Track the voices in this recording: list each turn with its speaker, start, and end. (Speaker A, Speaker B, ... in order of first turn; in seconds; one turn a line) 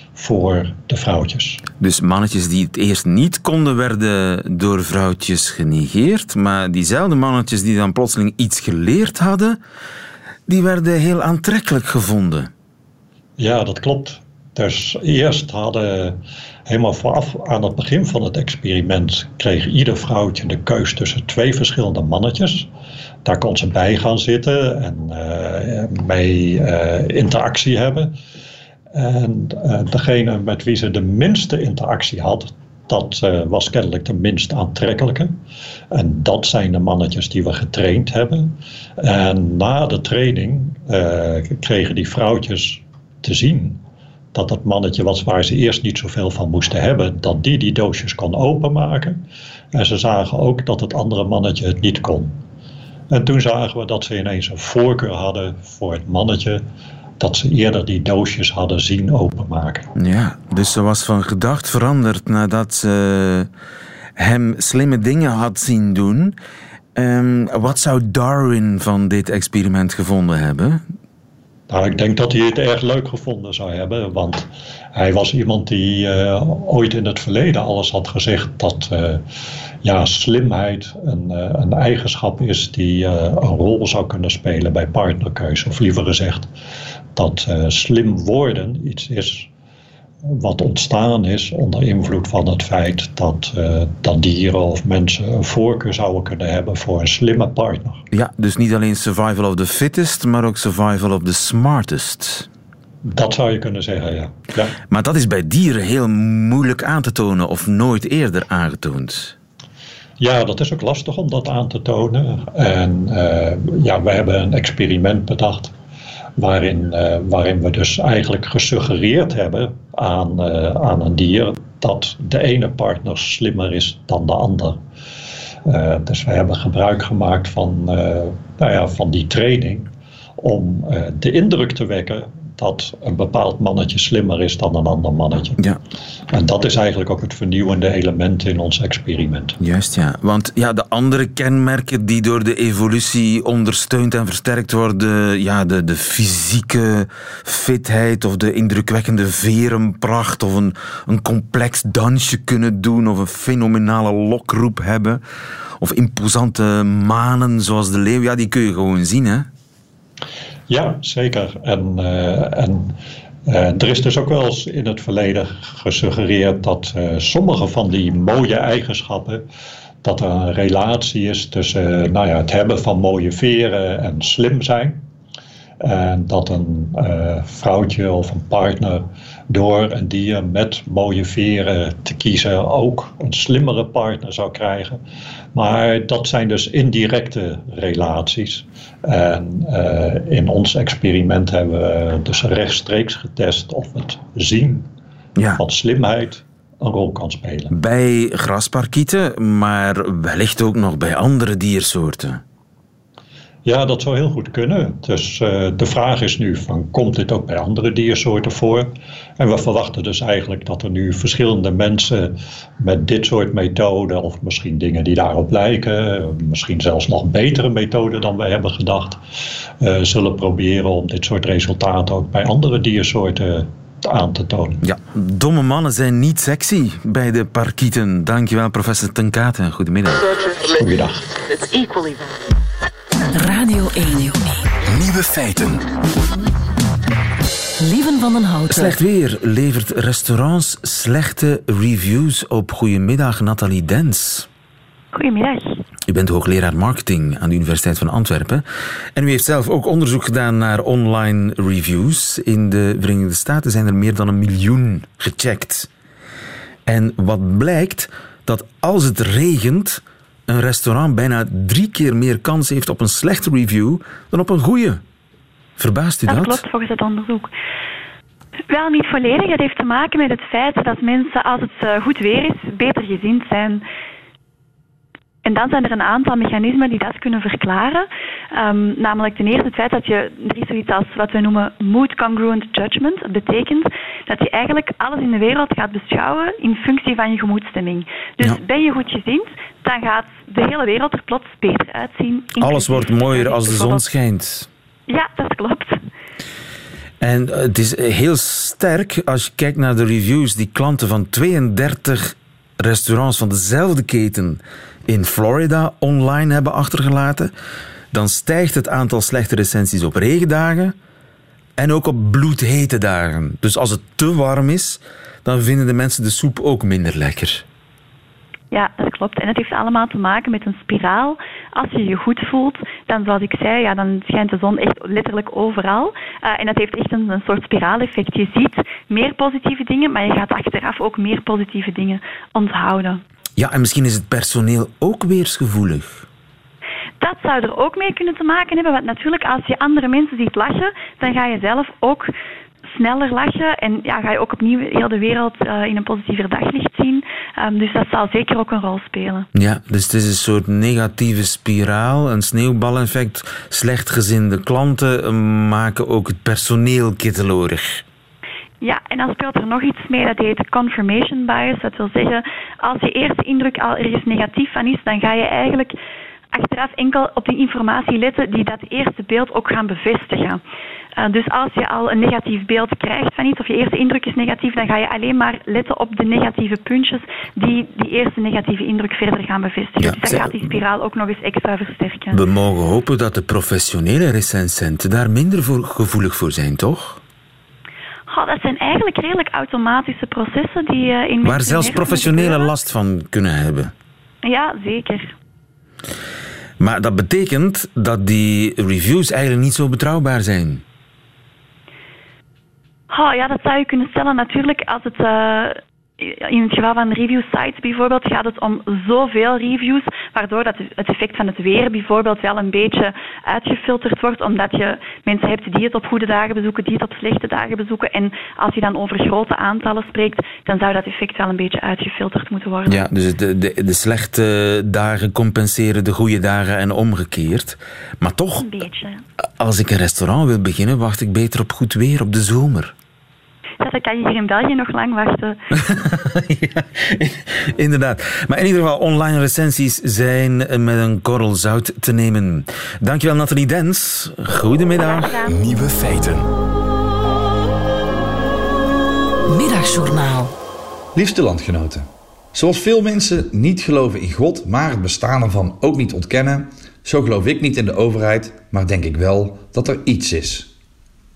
Speaker A: 0.2-1.6
Speaker B: 1.8-9.6
Speaker B: 10.5-12.5
Speaker A: 13.4-22.7
Speaker A: 23.2-28.2
Speaker A: 28.9-35.4
Speaker A: 35.9-43.8
Speaker A: 44.3-49.2
Speaker A: 49.7-52.4
Speaker A: 53.1-56.6
Speaker A: 57.2-59.9
Speaker B: 60.0-63.5
Speaker B: 64.2-66.4
Speaker B: 67.0-70.8
Speaker A: 71.7-79.2
Speaker A: 79.8-86.5
Speaker A: 87.2-89.5
Speaker A: 90.2-98.0
Speaker B: 98.1-102.5
Speaker A: 103.0-104.8
Speaker B: 104.9-109.3
Speaker A: 110.2-115.7
Speaker A: 116.4-124.8
Speaker A: 125.7-135.6
Speaker A: 136.3-139.6
Speaker B: 139.6-155.2
Speaker B: 155.8-159.5
Speaker A: 160.7-162.9
Speaker A: 163.5-169.4
Speaker A: 170.0-175.0
Speaker A: 175.8-185.0
Speaker A: 185.6-194.9
Speaker B: 195.4-195.6
Speaker A: 195.6-197.7
Speaker B: 197.7-202.4
Speaker A: 203.7-219.2
Speaker A: 219.8-224.8
Speaker B: 224.8-230.3
Speaker A: 230.7-231.4
Speaker C: 233.3-234.7
Speaker D: 234.9-235.9
Speaker C: 237.8-239.0
Speaker B: 238.7-244.5
Speaker E: 245.1-245.8
Speaker B: 246.1-248.6
Speaker B: 249.2-255.9
Speaker B: 256.9-265.0
Speaker B: 265.8-266.6
Speaker E: 266.3-267.5
Speaker E: 268.7-273.8
Speaker E: 275.4-294.1
Speaker B: 292.6-294.7
Speaker E: 295.1-296.0
Speaker B: 297.2-307.5
Speaker B: 308.1-310.9
Speaker B: 311.8-317.6
Speaker E: 318.7-333.2
Speaker B: 333.6-336.3
Speaker E: 337.2-342.3
Speaker E: 342.9-349.5
Speaker B: 349.5-358.0
Speaker E: 358.8-366.0
Speaker E: 366.5-370.6
Speaker E: 371.2-382.4
Speaker B: 380.0-380.7
Speaker B: 382.3-387.2
Speaker E: 388.3-392.7
Speaker B: 391.4-393.9
Speaker E: 394.4-395.3
Speaker B: 396.8-400.8
Speaker E: 403.1-423.1
Speaker B: 422.9-428.7
Speaker E: 428.6-429.2
Speaker B: 429.6-432.9
Speaker E: 433.8-435.6
Speaker B: 435.7-445.5
Speaker D: 445.5-446.5
Speaker C: 449.5-450.5
Speaker F: 451.1-460.7